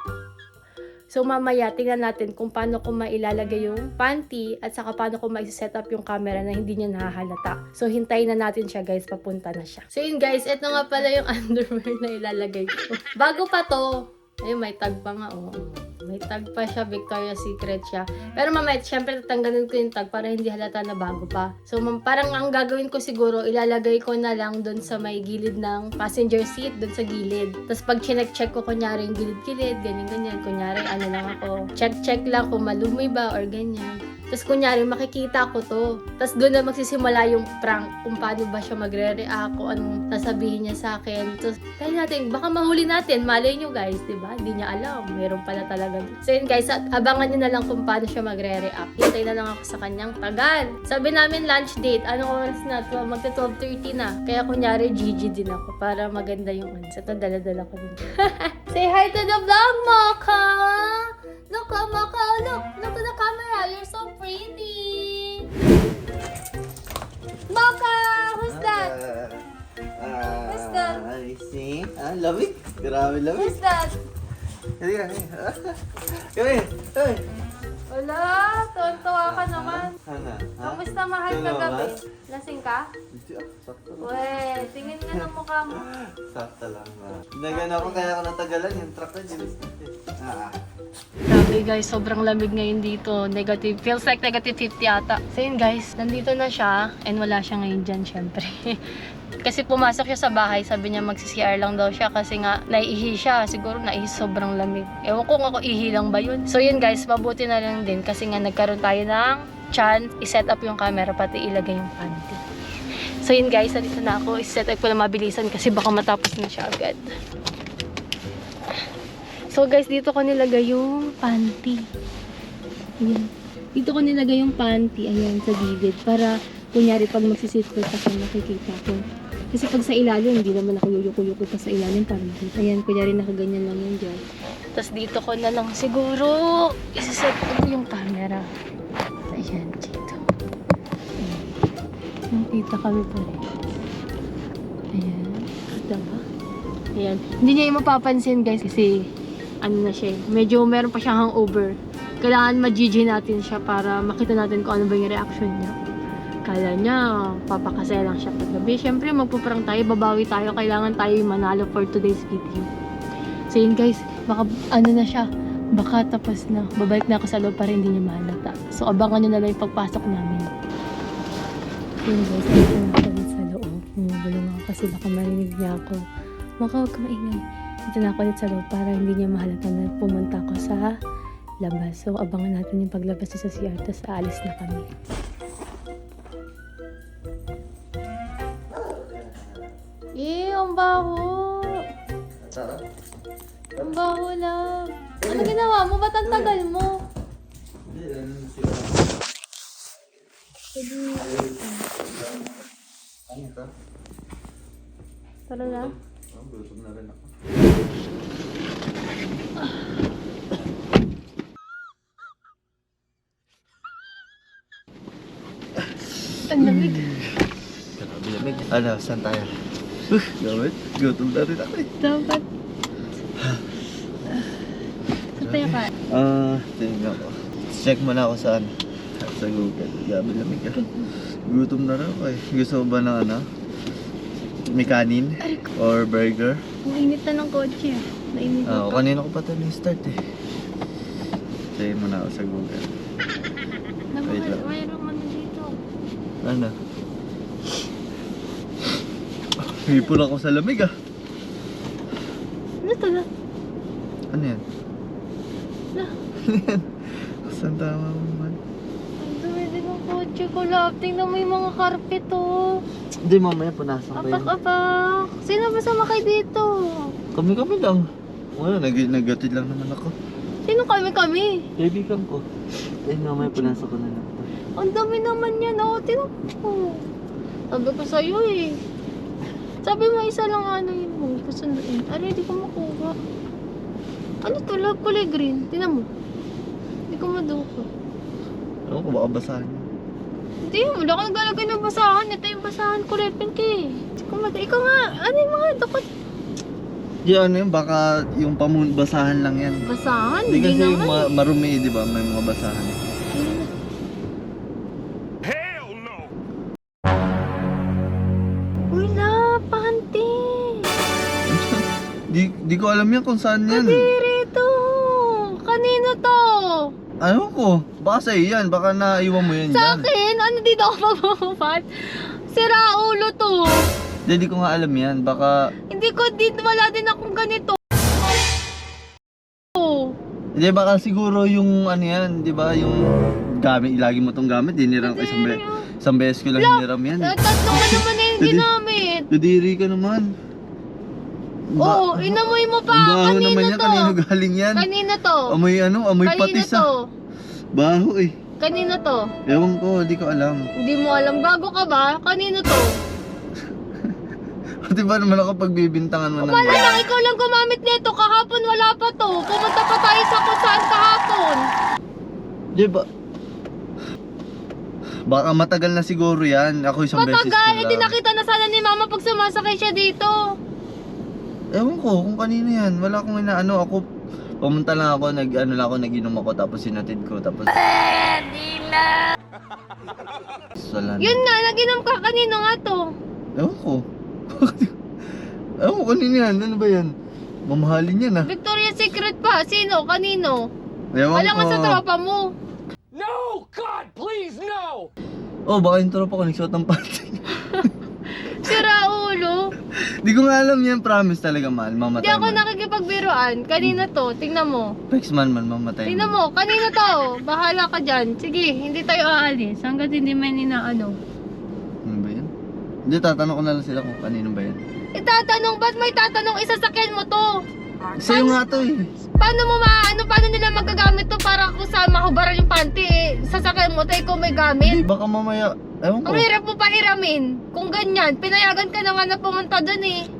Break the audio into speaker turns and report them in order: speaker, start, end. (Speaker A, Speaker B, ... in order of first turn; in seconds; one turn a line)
Speaker A: 1.1-13.9
Speaker A: 14.4-65.5
Speaker A: 67.5-68.9
Speaker B: 68.5-73.5
Speaker A: 70.4-71.0
Speaker A: 73.3-74.0
Speaker B: 74.8-77.2
Speaker A: 77.9-79.9
Speaker B: 79.2-82.0
Speaker A: 80.6-82.9
Speaker B: 83.1-84.1
Speaker A: 84.0-85.9
Speaker B: 85.1-90.6
Speaker A: 87.5-88.1
Speaker A: 91.3-98.8
Speaker A: 99.4-112.4
Speaker A: 113.2-117.1
Speaker A: 119.5-121.8
Speaker A: 123.0-129.0
Speaker A: 129.5-134.2
Speaker A: 134.8-138.4
Speaker A: 139.3-140.2
Speaker A: 141.2-141.5
Speaker A: 142.3-143.4
Speaker A: 144.9-146.2
Speaker A: 146.9-149.0
Speaker A: 149.6-155.8
Speaker A: 156.5-162.7
Speaker A: 163.5-170.5
Speaker A: 172.1-176.0
Speaker A: 176.6-180.9
Speaker A: 181.6-184.9
Speaker B: 188.7-189.7
Speaker A: 190.2-191.8
Speaker B: 192.4-192.8
Speaker A: 193.8-197.0
Speaker B: 195.2-195.5
Speaker B: 196.2-196.6
Speaker B: 197.9-199.1
Speaker A: 200.7-201.8
Speaker B: 201.2-202.5
Speaker B: 203.3-203.7
Speaker A: 205.5-205.9
Speaker B: 205.6-207.3
Speaker A: 216.5-217.1
Speaker B: 216.5-217.3
Speaker B: 217.9-219.5
Speaker B: 220.1-221.9
Speaker A: 222.0-222.4
Speaker B: 223.4-223.6
Speaker B: 225.3-230.8
Speaker A: 225.4-225.9
Speaker A: 230.7-231.1
Speaker B: 231.4-233.4
Speaker B: 234.7-236.6
Speaker A: 235.4-235.7
Speaker A: 236.8-239.1
Speaker B: 238.7-240.2
Speaker B: 241.7-242.9
Speaker A: 244.1-245.7
Speaker B: 244.3-244.6
Speaker B: 246.4-246.7
Speaker B: 249.6-250.9
Speaker A: 252.8-253.3
Speaker B: 254.3-254.6
Speaker B: 256.4-258.6
Speaker A: 259.2-262.8
Speaker B: 263.2-264.5
Speaker A: 264.1-267.1
Speaker B: 267.3-270.1
Speaker A: 270.6-271.6
Speaker B: 271.8-272.4
Speaker B: 273.0-274.5
Speaker A: 273.4-273.8
Speaker A: 274.8-277.0
Speaker A: 277.7-278.8
Speaker A: 279.8-283.1
Speaker A: 284.4-286.1
Speaker A: 287.1-287.9
Speaker B: 288.9-289.9
Speaker A: 290.6-296.0
Speaker B: 297.2-299.8
Speaker A: 299.8-301.3
Speaker B: 300.5-303.0
Speaker A: 303.3-303.7
Speaker A: 308.9-310.9
Speaker B: 311.4-314.1
Speaker A: 313.7-316.9
Speaker B: 317.2-320.1
Speaker A: 319.4-323.8
Speaker B: 324.2-325.5
Speaker A: 325.9-327.8
Speaker A: 329.8-330.1
Speaker B: 330.6-338.7
Speaker A: 335.0-335.9
Speaker A: 336.5-339.3
Speaker B: 339.3-340.3
Speaker B: 341.7-344.9
Speaker A: 341.8-344.1
Speaker A: 344.7-345.5
Speaker B: 345.5-346.9
Speaker A: 346.2-347.0
Speaker B: 347.7-348.3
Speaker A: 348.6-349.3
Speaker B: 349.5-350.6
Speaker A: 350.8-352.9
Speaker B: 354.8-357.0
Speaker A: 356.4-361.6
Speaker B: 362.7-363.0
Speaker B: 365.3-368.1
Speaker A: 367.1-370.4
Speaker B: 371.7-374.0
Speaker B: 374.6-377.7
Speaker A: 377.9-379.2
Speaker B: 380.8-381.4
Speaker A: 381.2-383.0
Speaker B: 383.6-384.9
Speaker B: 385.8-387.1
Speaker B: 387.6-388.5
Speaker A: 388.4-390.6
Speaker B: 391.1-392.0
Speaker A: 391.3-392.5
Speaker C: 393.1-395.1
Speaker B: 395.7-397.9
Speaker A: 398.4-399.6
Speaker B: 399.9-402.6
Speaker A: 402.2-404.9
Speaker B: 405.1-406.4
Speaker A: 406.1-411.1
Speaker B: 412.0-412.5
Speaker B: 413.1-414.8
Speaker A: 415.1-417.5
Speaker A: 418.1-418.6
Speaker B: 418.2-419.1
Speaker A: 419.4-425.0
Speaker B: 424.8-426.5
Speaker A: 426.2-430.2